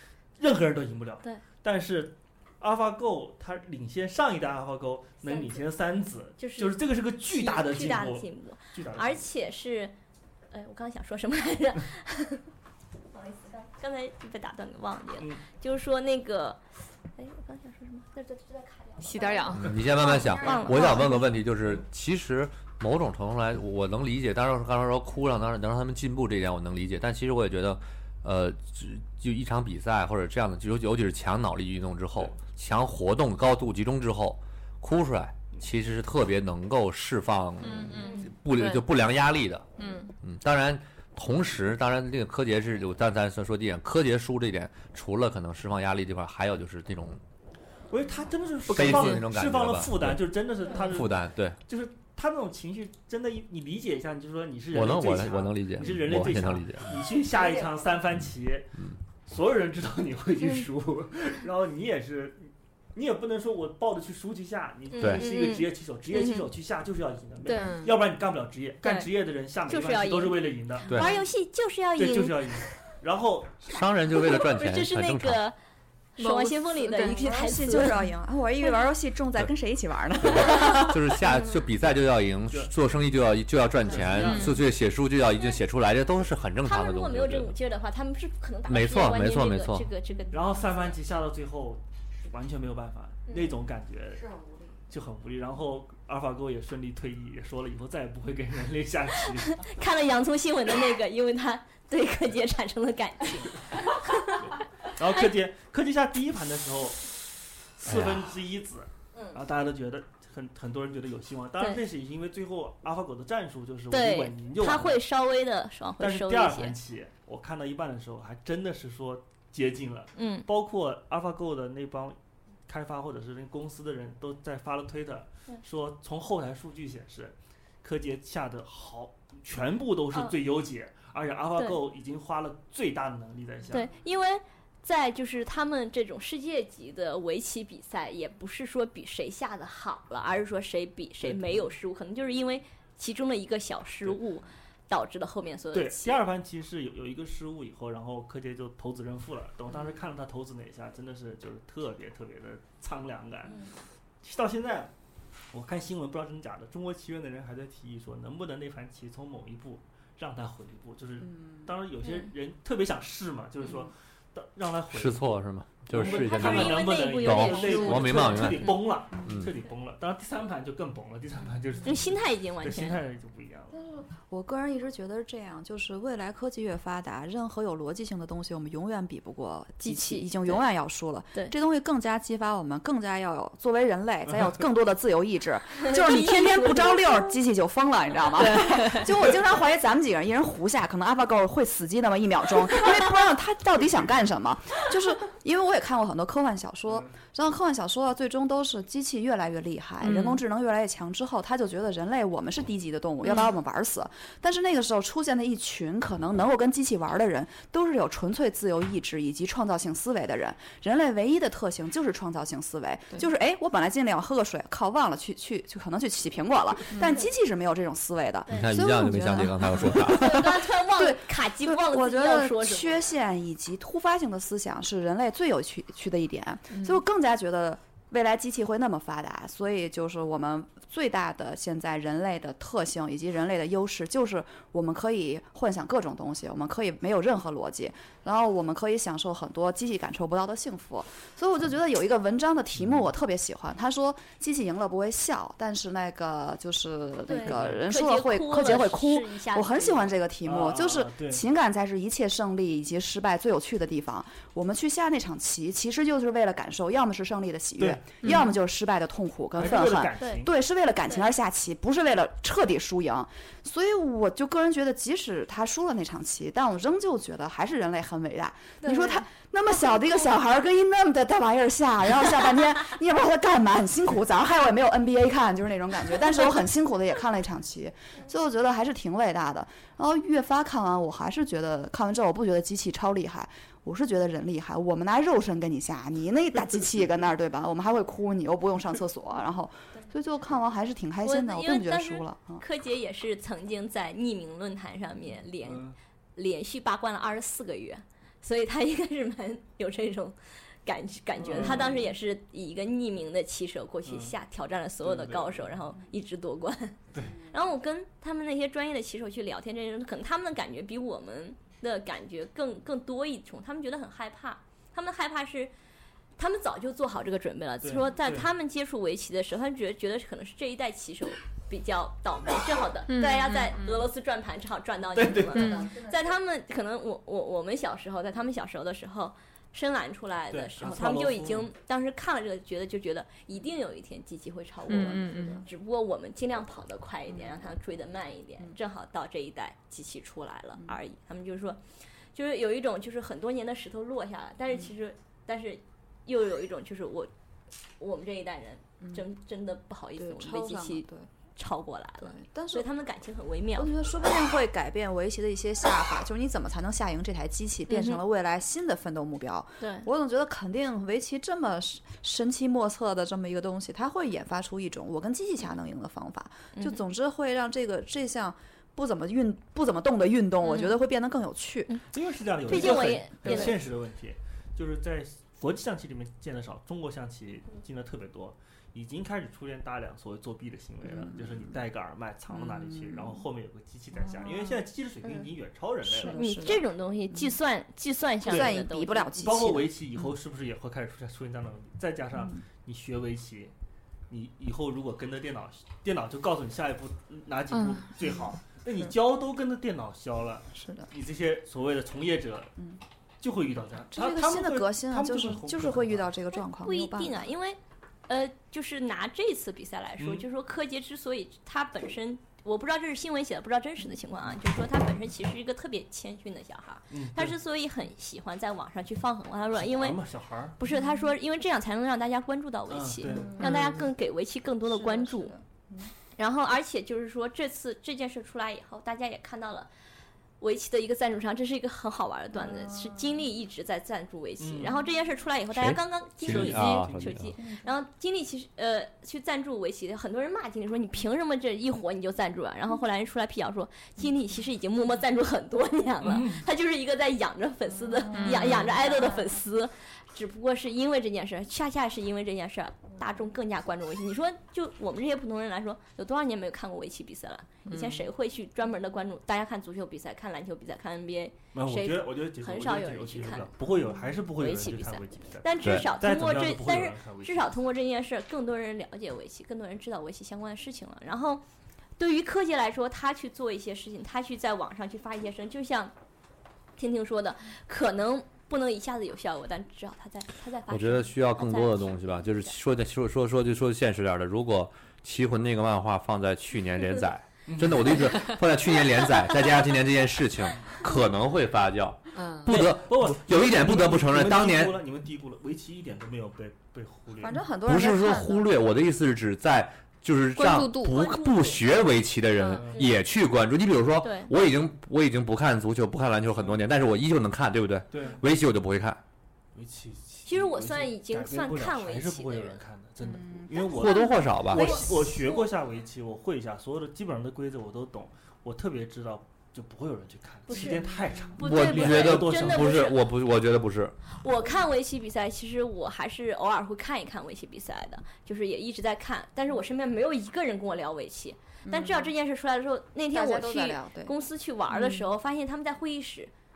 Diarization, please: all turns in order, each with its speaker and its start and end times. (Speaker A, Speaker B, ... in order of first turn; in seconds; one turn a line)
Speaker A: 0.4-9.3
Speaker B: 5.2-5.6
Speaker B: 6.4-9.9
Speaker B: 10.5-12.4
Speaker B: 13.1-16.6
Speaker A: 15.2-15.4
Speaker B: 17.2-21.3
Speaker C: 19.0-19.7
Speaker D: 19.5-39.6
Speaker A: 20.4-20.9
Speaker C: 37.6-38.9
Speaker B: 38.0-38.3
Speaker C: 39.8-40.1
Speaker D: 40.2-47.2
Speaker A: 47.9-71.2
Speaker D: 48.7-51.6
Speaker D: 54.7-56.9
Speaker B: 64.9-66.5
Speaker D: 65.0-65.2
Speaker C: 67.4-68.0
Speaker B: 68.8-69.1
Speaker B: 69.7-72.3
Speaker A: 72.0-73.8
Speaker D: 73.7-75.4
Speaker B: 74.3-75.5
Speaker B: 76.2-78.0
Speaker C: 76.2-77.9
Speaker E: 77.1-80.9
Speaker D: 80.2-87.5
Speaker A: 83.8-84.6
Speaker C: 84.2-84.6
Speaker B: 86.6-91.0
Speaker D: 88.7-89.9
Speaker A: 90.3-94.3
Speaker B: 93.3-93.5
Speaker A: 94.9-99.7
Speaker B: 99.5-104.5
Speaker A: 104.8-107.1
Speaker A: 107.8-115.0
Speaker D: 107.8-108.3
Speaker B: 111.6-111.8
Speaker B: 113.9-116.8
Speaker A: 116.0-133.9
Speaker B: 120.2-120.5
Speaker B: 133.7-146.2
Speaker A: 141.2-141.7
Speaker A: 145.7-153.7
Speaker A: 154.2-154.9
Speaker A: 155.5-165.3
Speaker D: 164.9-169.5
Speaker A: 165.9-173.8
Speaker B: 166.0-168.7
Speaker B: 171.8-173.0
Speaker E: 173.7-220.4
Speaker B: 179.8-180.6
Speaker A: 184.3-184.5
Speaker B: 185.8-187.2
Speaker B: 188.6-189.0
Speaker C: 200.0-200.4
Speaker D: 218.5-220.5
Speaker C: 218.8-219.6
Speaker B: 220.1-223.1
Speaker E: 221.0-292.6
Speaker B: 247.3-250.2
Speaker A: 247.4-247.8
Speaker A: 250.4-251.4
Speaker A: 257.8-258.1
Speaker C: 258.2-258.5
Speaker A: 259.6-260.5
Speaker B: 260.2-260.4
Speaker B: 268.8-269.2
Speaker B: 291.2-315.7
Speaker A: 295.6-295.9
Speaker A: 301.4-302.1
Speaker A: 304.0-304.3
Speaker A: 305.0-305.8
Speaker B: 316.4-341.8
Speaker A: 317.8-318.5
Speaker C: 323.1-323.8
Speaker A: 325.1-325.8
Speaker C: 325.5-325.9
Speaker E: 325.6-326.3
Speaker A: 330.5-331.7
Speaker C: 334.9-335.6
Speaker E: 337.3-337.6
Speaker B: 342.3-347.3
Speaker B: 348.0-353.9
Speaker E: 350.1-351.3
Speaker E: 352.2-352.9
Speaker E: 353.7-372.0
Speaker B: 357.9-358.2
Speaker B: 359.8-360.1
Speaker B: 366.7-367.0
Speaker B: 370.6-370.9
Speaker A: 372.1-386.5
Speaker B: 372.6-373.8
Speaker E: 372.8-373.2
Speaker E: 381.0-381.6
Speaker E: 382.5-383.4
Speaker E: 384.3-384.8
Speaker E: 386.0-387.5
Speaker B: 386.2-389.3
Speaker E: 388.4-389.9
Speaker A: 388.4-393.7
Speaker A: 394.3-402.7
Speaker C: 397.7-398.1
Speaker E: 400.7-401.1
Speaker A: 403.4-406.3
Speaker E: 404.1-407.4
Speaker B: 406.7-420.2
Speaker A: 410.2-410.4
Speaker A: 417.1-417.6
Speaker A: 419.7-420.8
Speaker B: 420.8-425.5
Speaker A: 422.9-424.1
Speaker E: 424.9-426.1
Speaker B: 426.4-429.9
Speaker B: 430.6-463.7
Speaker A: 434.6-435.0
Speaker D: 435.7-437.5
Speaker A: 436.4-437.2
Speaker A: 446.2-446.6
Speaker C: 448.3-449.0
Speaker C: 457.9-458.3
Speaker A: 461.7-467.8
Speaker B: 464.6-471.6
Speaker B: 472.2-476.1
Speaker B: 477.0-482.7
Speaker D: 480.9-495.0
Speaker A: 487.7-488.3
Speaker C: 492.3-492.7
Speaker A: 492.7-497.6
Speaker E: 497.4-498.7
Speaker D: 497.9-509.2
Speaker C: 500.6-501.2
Speaker B: 501.1-502.0
Speaker C: 502.6-502.8
Speaker A: 502.8-503.0
Speaker B: 504.2-504.5
Speaker A: 506.5-506.8
Speaker A: 508.1-508.4
Speaker A: 509.7-523.1
Speaker B: 510.4-512.8
Speaker E: 513.2-514.3
Speaker D: 513.9-515.0
Speaker B: 514.7-515.7
Speaker B: 520.7-523.2
Speaker D: 521.6-524.1
Speaker B: 524.3-536.5
Speaker E: 531.8-532.3
Speaker E: 533.3-534.3
Speaker C: 534.9-535.2